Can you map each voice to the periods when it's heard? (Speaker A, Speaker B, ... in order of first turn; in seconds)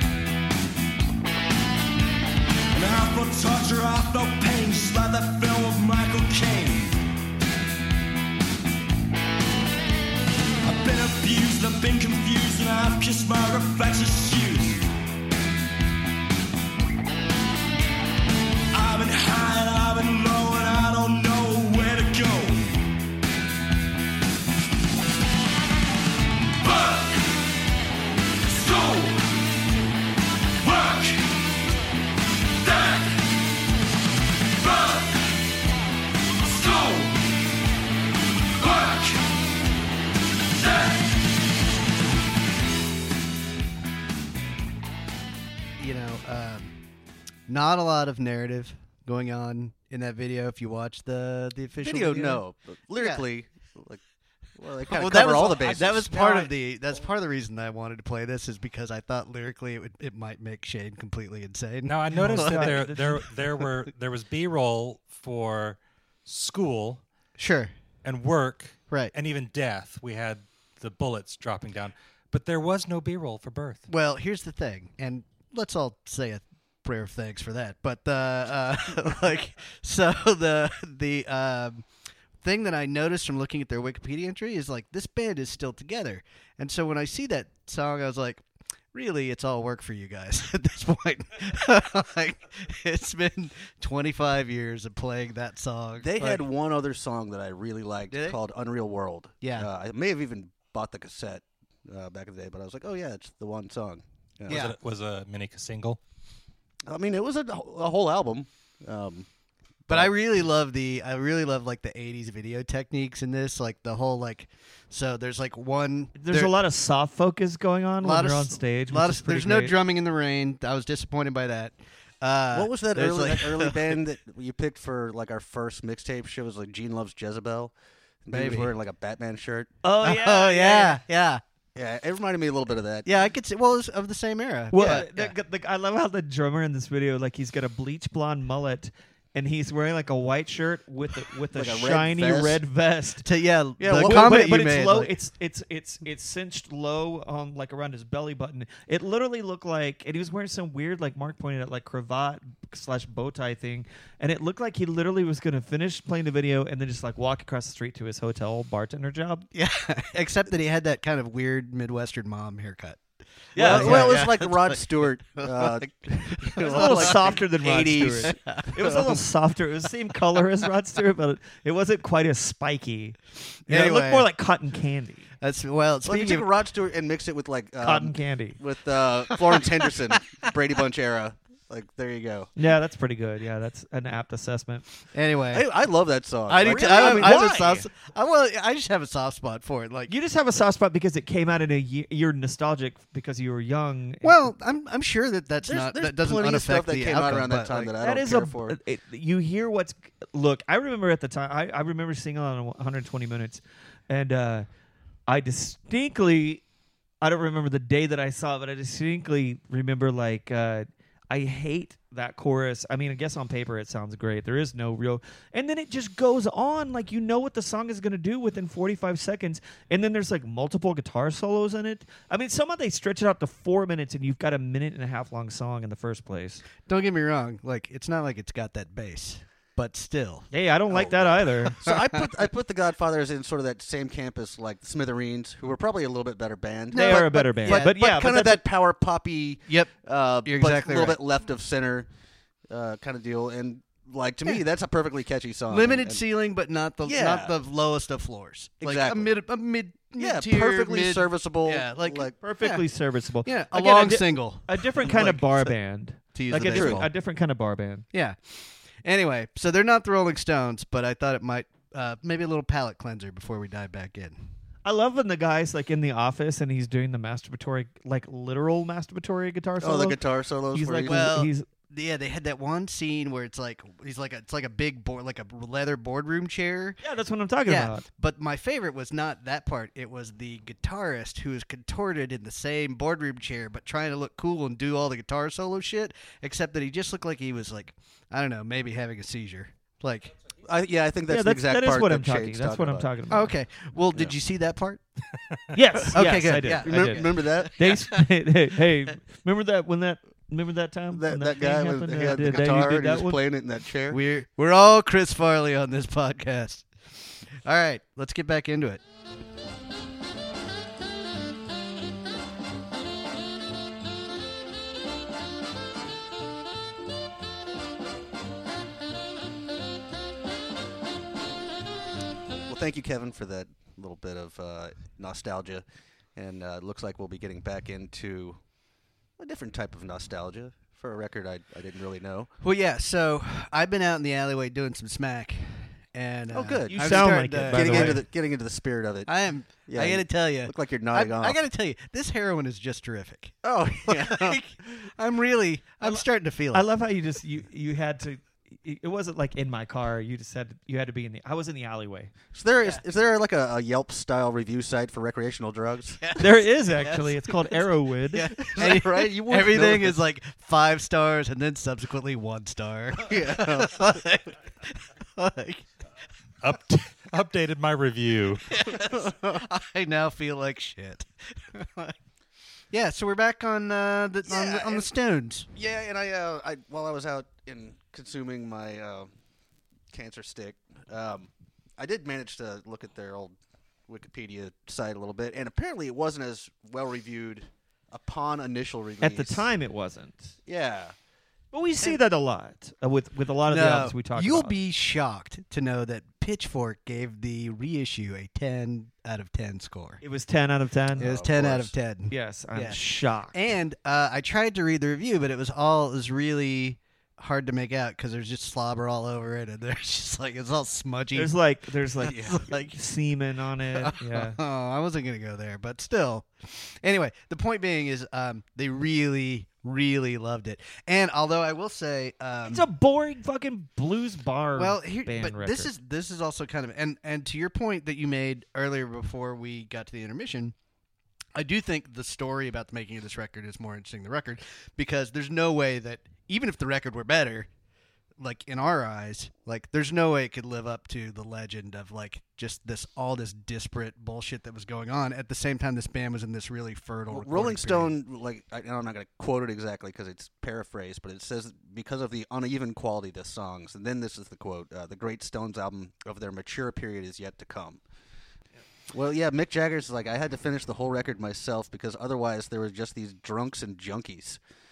Speaker A: 2.8-3.0, 11.8-12.1, 13.4-14.1, 20.2-20.9
Speaker B: 45.8-46.7, 47.5-52.4, 52.9-53.2, 54.9-63.3, 67.4-67.7, 68.9-69.1, 73.9-81.8, 82.4-96.5, 98.1-98.4, 99.4-99.7, 104.5-104.8, 109.9-116.5, 118.0-124.0, 128.3-128.7, 130.0-131.4, 133.1-135.3, 143.2-145.2, 159.5-163.0, 163.5-167.4, 168.2-168.8, 173.7-174.3, 175.4-176.5, 179.5-180.4, 185.1-185.7, 186.5-190.1, 194.2-197.9, 226.9-230.5, 231.8-232.2, 236.9-237.9, 239.7-239.9, 240.4-241.2, 245.7-252.8, 253.4-255.4, 256.3-257.1, 258.1-264.4, 271.1-277.0, 277.7-290.3, 293.3-295.0, 296.1-298.2, 304.1-306.9, 307.5-309.0, 332.6-338.2, 339.3-346.9, 356.2-357.7, 358.3-365.9, 368.7-372.2, 372.9-375.7, 393.7-400.2, 401.2-403.0, 403.5-411.6, 412.2-413.0, 413.9-422.9, 424.8-430.7, 431.6-437.7, 438.4-448.1
Speaker C: 51.8-54.0, 54.6-56.5, 96.0-104.7, 106.9-109.3, 122.5-127.7, 128.2-129.7, 131.8-133.1, 134.7-135.1, 141.6-142.6, 143.8-144.6, 163.6-169.0, 176.0-182.5, 185.5-187.8, 195.6-198.8, 230.9-242.1, 242.7-246.3, 247.0-247.6, 248.8-249.3, 250.2-252.3, 256.7-257.1, 269.8-271.3, 290.6-293.1, 296.6-297.8, 301.1-304.2, 322.7-325.9, 326.4-328.6, 329.4-332.5, 336.5-341.6, 343.6-344.7, 352.5-356.3, 358.6-360.2, 363.2-364.0, 369.1-369.6, 374.5-375.1, 375.8-379.3, 380.1-383.6, 384.1-389.7, 390.7-391.1, 401.2-401.9, 412.2-412.6, 447.3-458.0, 459.1-464.6
Speaker D: 61.9-67.0, 68.0-73.8, 104.5-106.0, 366.6-368.7
Speaker E: 62.1-63.2, 116.2-119.8, 129.8-131.0, 134.7-143.3, 143.9-159.5, 163.6-164.2, 166.7-175.3, 177.8-178.6, 182.6-184.9, 186.7-187.8, 190.1-194.5, 198.0-204.7, 205.3-206.6, 207.2-226.6, 230.5-231.8, 236.9-238.6, 252.4-258.1, 264.9-270.2, 270.7-271.7, 277.0-278.0, 291.3-293.6, 295.7-303.4, 336.9-338.2, 346.7-352.3, 356.4-358.5, 389.2-390.6, 391.7-394.8, 400.2-401.4, 402.3-403.6, 411.4-414.6, 422.7-425.9